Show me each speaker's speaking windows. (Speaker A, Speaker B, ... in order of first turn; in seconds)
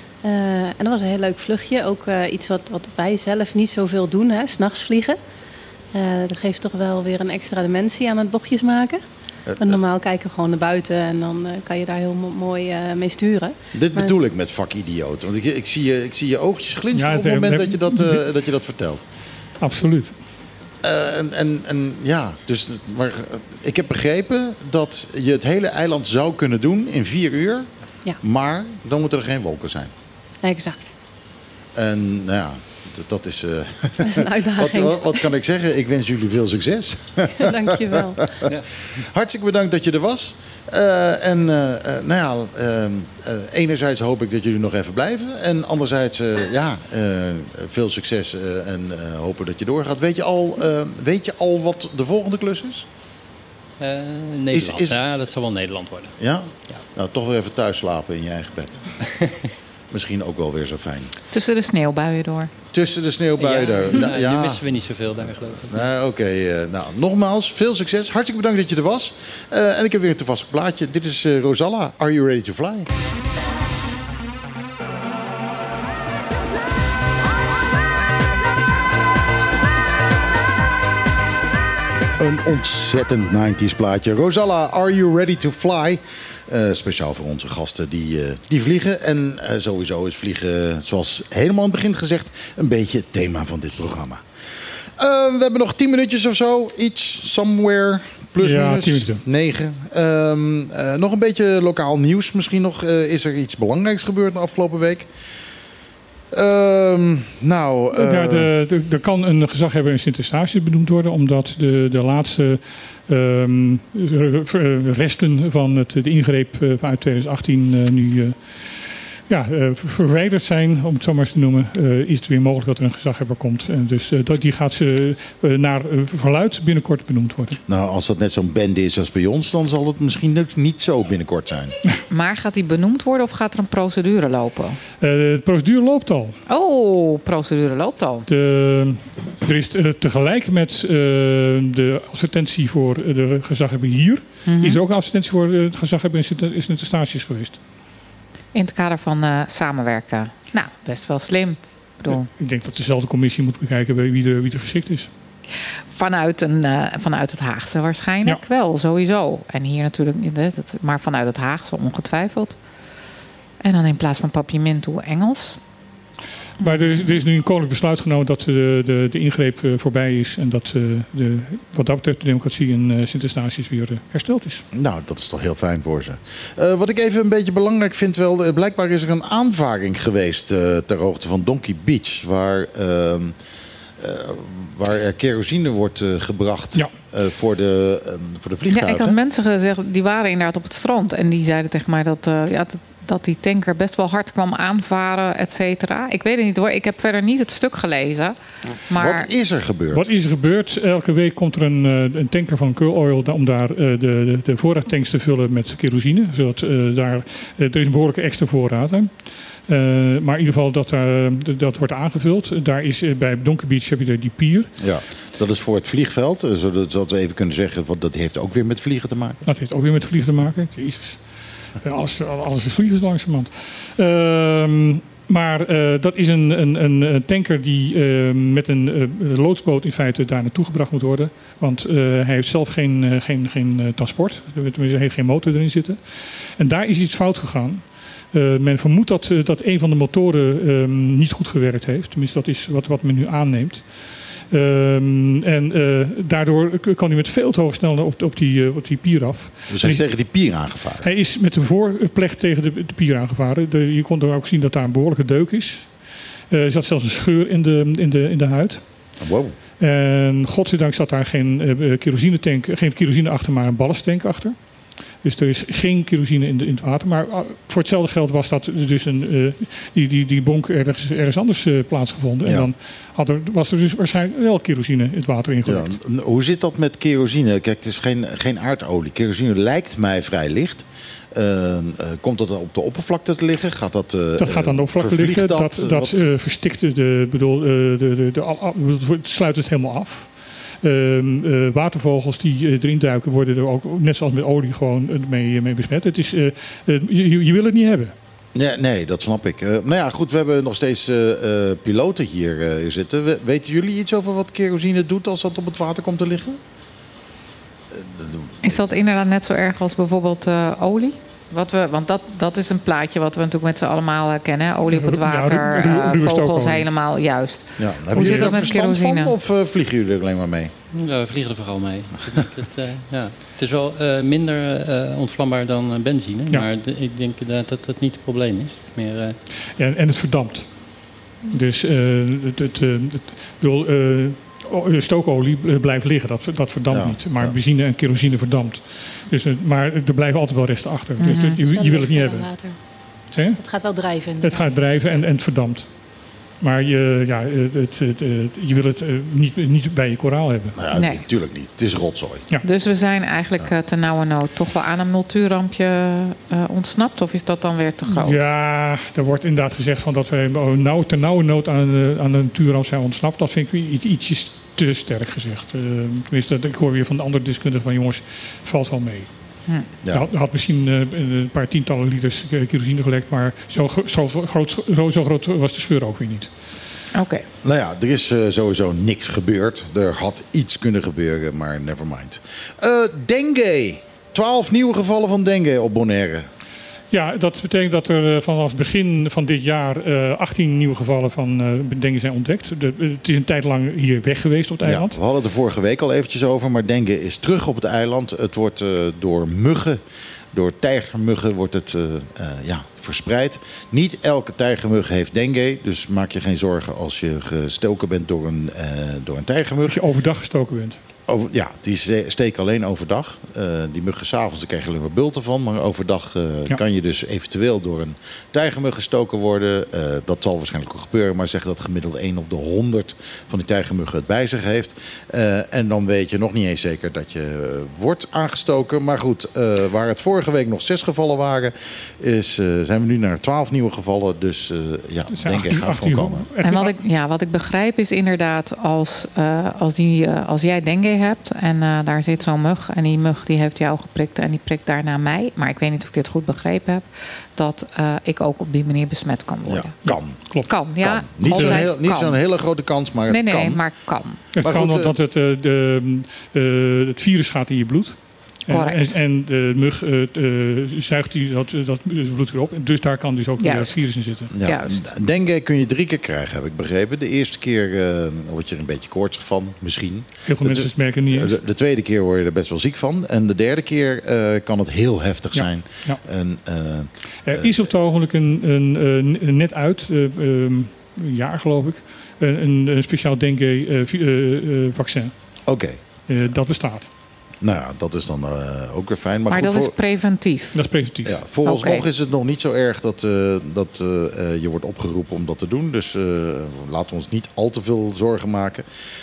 Speaker A: 0.2-5.2, 5.9-9.0, 9.6-14.1, 30.4-30.9, 34.0-35.2, 37.3-38.2, 341.3-342.8, 343.6-345.0
Speaker B: 9.4-9.8, 13.7-19.0, 20.8-27.7, 28.2-29.9, 31.7-52.9, 54.5-55.0, 56.2-58.9, 59.9-61.1, 62.7-64.6, 65.2-72.9, 82.2-94.2, 95.0-105.1, 106.3-108.5, 127.7-131.7, 174.7-183.3, 184.0-189.2, 198.7-200.1, 214.8-219.4, 249.7-251.1, 259.2-259.5, 272.4-272.7, 275.6-286.3, 298.5-306.6, 307.9-308.8, 317.8-320.7, 336.9-337.6, 350.8-352.4, 377.6-386.5, 394.8-400.0, 400.5-410.0, 411.3-436.5, 449.6-450.4, 451.0-453.8, 454.6-455.1, 464.5-477.7, 485.7-486.0, 487.6-489.9, 491.2-498.8
Speaker C: 16.9-18.2, 19.6-20.2, 98.4-99.2, 107.9-127.6, 135.0-136.3, 138.3-147.6, 152.1-155.1, 166.6-174.6, 199.9-214.8, 219.4-250.1, 251.0-255.9, 256.5-258.9, 259.8-264.6, 265.2-275.9, 284.4-298.1, 314.9-316.9, 318.2-318.6, 329.7-342.5, 343.3-343.6, 344.4-345.9, 346.6-350.7, 358.1-369.3, 370.1-376.5, 387.1-395.2, 409.9-411.0, 435.3-436.9, 450.0-450.8, 451.5-451.8, 454.6-464.5, 470.4-471.6, 475.5-476.2, 477.4-485.3, 486.3-487.1, 490.7-491.4
Speaker D: 53.8-56.1, 63.4-65.9, 320.9-329.4
Speaker E: 61.3-62.5, 132.1-134.8, 136.5-138.3, 144.4-144.8, 148.5-152.3, 155.9-162.6, 163.6-165.6, 166.6-167.1, 188.7-198.4, 198.9-199.3, 308.6-319.3, 341.2-341.6, 350.9-351.2, 352.6-358.4, 377.1-377.4, 436.6-450.0, 450.7-452.4, 453.3-454.4, 458.7-459.2, 463.6-465.1, 489.5-490.7, 491.6-492.1